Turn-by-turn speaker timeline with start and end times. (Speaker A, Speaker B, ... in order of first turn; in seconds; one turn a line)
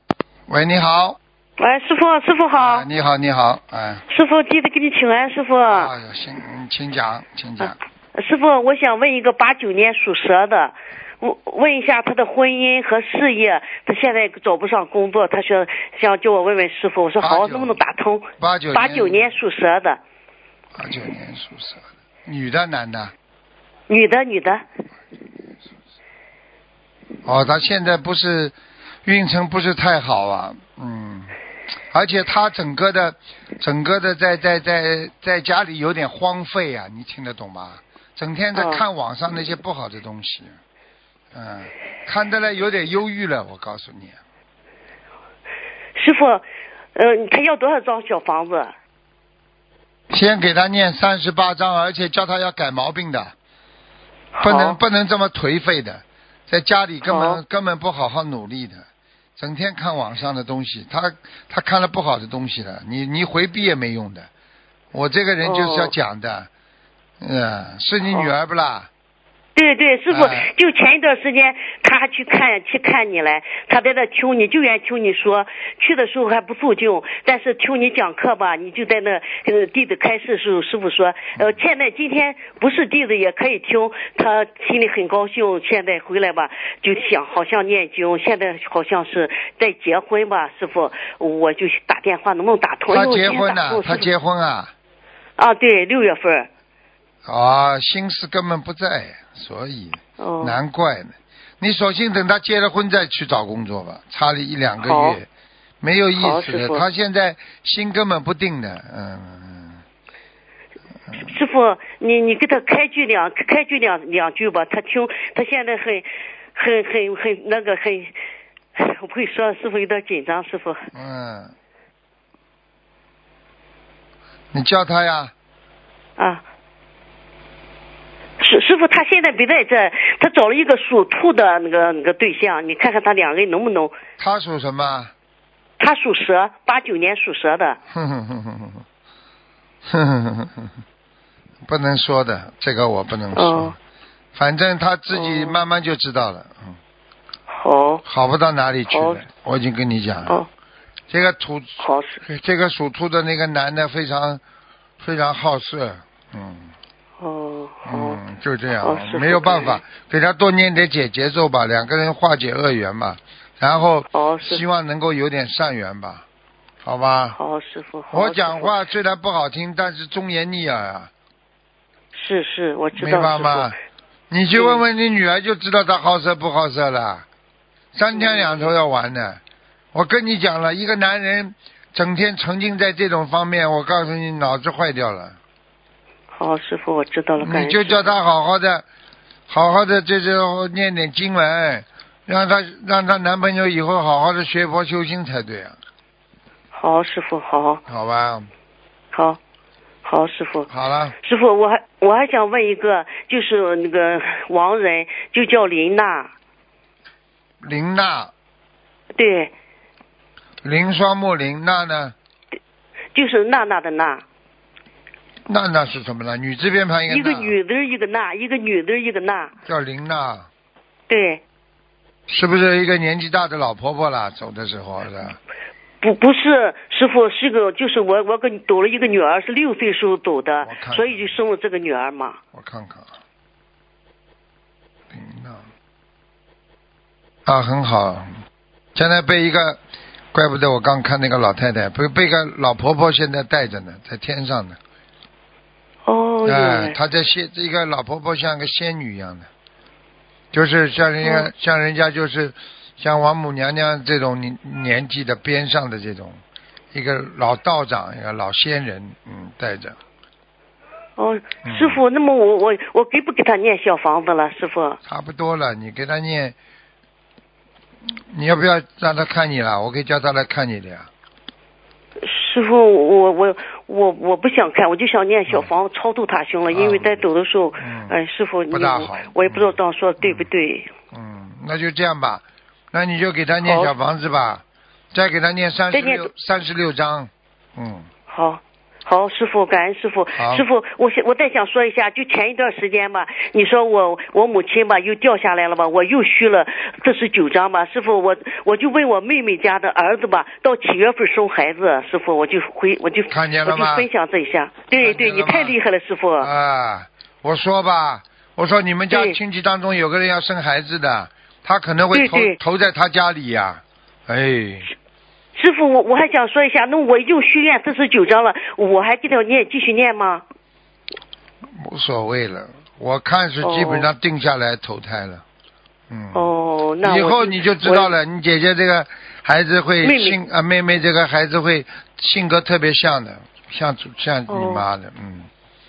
Speaker A: 0.5-1.2
Speaker B: 1.6-2.9
Speaker A: 2.6-4.0
Speaker B: 4.1-5.9
Speaker A: 5.7-7.7
Speaker B: 8.1-20.0
Speaker A: 17.2-17.8
Speaker A: 18.4-19.4
Speaker A: 20.8-23.1
Speaker B: 23.9-24.6
Speaker A: 27.2-31.3
Speaker A: 31.9-40.6
Speaker B: 38.5-38.8
Speaker A: 41.3-44.2
Speaker B: 46.0-48.7
Speaker A: 50.1-53.3
Speaker B: 54.3-54.8
Speaker A: 54.4-64.3
Speaker B: 57.1-57.4
Speaker A: 64.9-66.5
Speaker B: 65.4-65.9
Speaker A: 67.2-68.9
Speaker B: 69.5-94.1
Speaker A: 70.1-70.5
Speaker A: 92.9-94.7
Speaker B: 95.4-96.5
Speaker A: 97.2-105.2
Speaker B: 100.2-100.6
Speaker B: 104.8-105.2
Speaker A: 105.8-109.8
Speaker B: 106.2-106.8
Speaker B: 111.2-118.1
Speaker B: 118.7-120.9
Speaker A: 120.9-121.5
Speaker A: 124.5-125.3
Speaker B: 126.2-126.4
Speaker B: 128.4-133.9
Speaker A: 134.2-135.1
Speaker B: 135.8-137.8
Speaker A: 137.9-138.8
Speaker A: 139.8-140.7
Speaker A: 141.7-143.8
Speaker B: 143.3-143.7
Speaker A: 144.3-146.8
Speaker B: 145.1-145.6
Speaker B: 147.5-148.0
Speaker A: 148.1-150.4
Speaker B: 148.9-149.2
Speaker A: 151.1-154.4
Speaker B: 151.8-152.2
Speaker A: 155.0-156.7
Speaker B: 157.2-158.2
Speaker A: 157.8-166.2
Speaker B: 158.8-159.8
Speaker B: 164.1-164.6
Speaker A: 166.8-167.4
Speaker B: 167.3-168.8
Speaker A: 168.1-171.1
Speaker B: 172.1-173.8
Speaker A: 172.9-173.8
Speaker A: 174.3-177.2
Speaker B: 174.5-174.8
Speaker A: 177.9-179.4
Speaker B: 178.1-178.7
Speaker A: 179.9-185.4
Speaker B: 186.3-188.1
Speaker A: 187.4-188.8
Speaker A: 189.5-195.8
Speaker B: 196.7-197.8
Speaker A: 197.9-198.5
Speaker B: 199.1-199.4
Speaker B: 200.0-200.7
Speaker A: 200.7-201.1
Speaker B: 201.2-206.3
Speaker A: 207.6-208.3
Speaker B: 209.1-209.5
Speaker A: 210.6-212.1
Speaker B: 213.1-214.2
Speaker A: 215.5-217.5
Speaker B: 217.1-219.5
Speaker A: 219.7-220.5
Speaker B: 221.1-221.4
Speaker A: 222.3-225.4
Speaker B: 226.0-232.4
Speaker A: 230.6-231.4
Speaker A: 232.5-233.1
Speaker A: 235.1-235.7
Speaker A: 237.4-238.3
Speaker A: 238.9-239.8
Speaker A: 240.3-244.8
Speaker B: 246.0-247.0
Speaker A: 246.4-249.5
Speaker A: 250.5-256.4
Speaker B: 251.2-251.5
Speaker A: 256.9-260.0
Speaker B: 261.1-265.0
Speaker A: 261.6-262.0
Speaker A: 265.0-266.6
Speaker A: 268.3-271.1
Speaker B: 272.2-280.9
Speaker A: 276.7-277.2
Speaker A: 277.8-278.1
Speaker A: 278.7-280.5
Speaker A: 281.1-288.1
Speaker B: 283.6-283.9
Speaker B: 285.9-286.3
Speaker B: 288.3-306.5
Speaker A: 290.4-290.6
Speaker A: 303.3-304.1
Speaker A: 305.0-305.8
Speaker A: 306.4-314.9
Speaker B: 309.1-309.4
Speaker B: 312.1-312.6
Speaker B: 315.5-320.4
Speaker A: 321.7-325.4
Speaker B: 323.6-324.1
Speaker A: 326.1-326.5
Speaker B: 326.3-328.1
Speaker A: 327.0-335.5
Speaker B: 330.0-330.4
Speaker B: 334.5-334.9